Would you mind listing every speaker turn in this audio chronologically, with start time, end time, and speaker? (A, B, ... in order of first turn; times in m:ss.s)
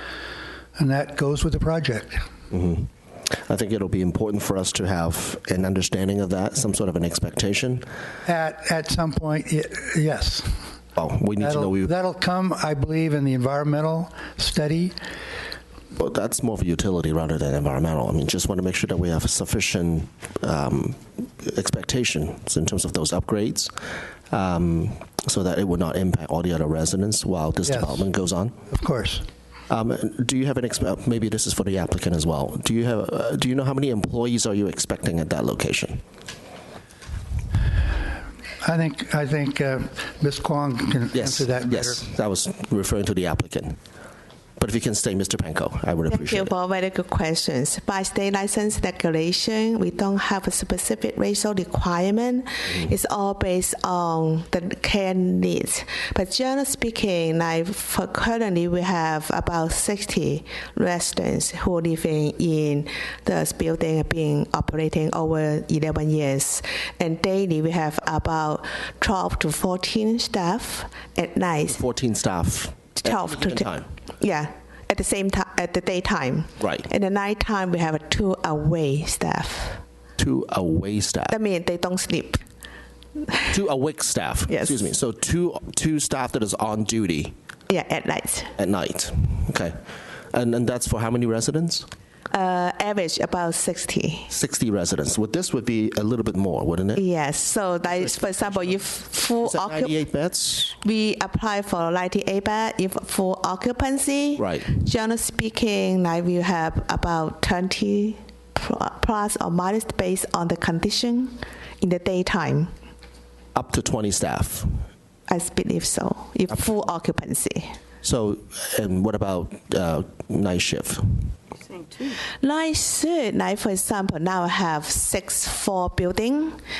0:00.8-0:02.2 A
0:02.5-0:02.9 B
0:03.5-0:07.8 B
0:08.2-0:10.6 A
0:11.0-0:11.9 B
0:11.4-0:14.9 A
0:15.9-0:23.7 B
0:24.3-0:28.5 B
0:27.6-0:28.0 A
0:28.7-0:29.2 A
0:29.7-0:36.0 B
0:38.6-0:42.0 A
0:41.1-0:43.8 B
0:44.6-0:46.5 B
0:46.1-1:11.8 C
1:11.7-1:13.8 B
1:13.0-1:19.8 C
1:16.6-1:16.8 B
1:20.2-1:21.4 B
1:21.3-1:22.4 C
1:23.5-1:27.3 B
1:24.5-1:24.8 C
1:27.7-1:28.5 C
1:28.6-1:29.7 B
1:30.3-1:31.8 B
1:32.3-1:34.3 C
1:34.3-1:37.0 B
1:36.9-1:40.0 C
1:37.8-1:38.8 B
1:39.4-1:40.7 B
1:40.8-1:52.7 C
1:44.4-1:44.7 B
1:53.5-1:54.8 B
1:55.3-1:57.7 C
1:58.0-2:01.3 B
2:02.0-2:06.6 C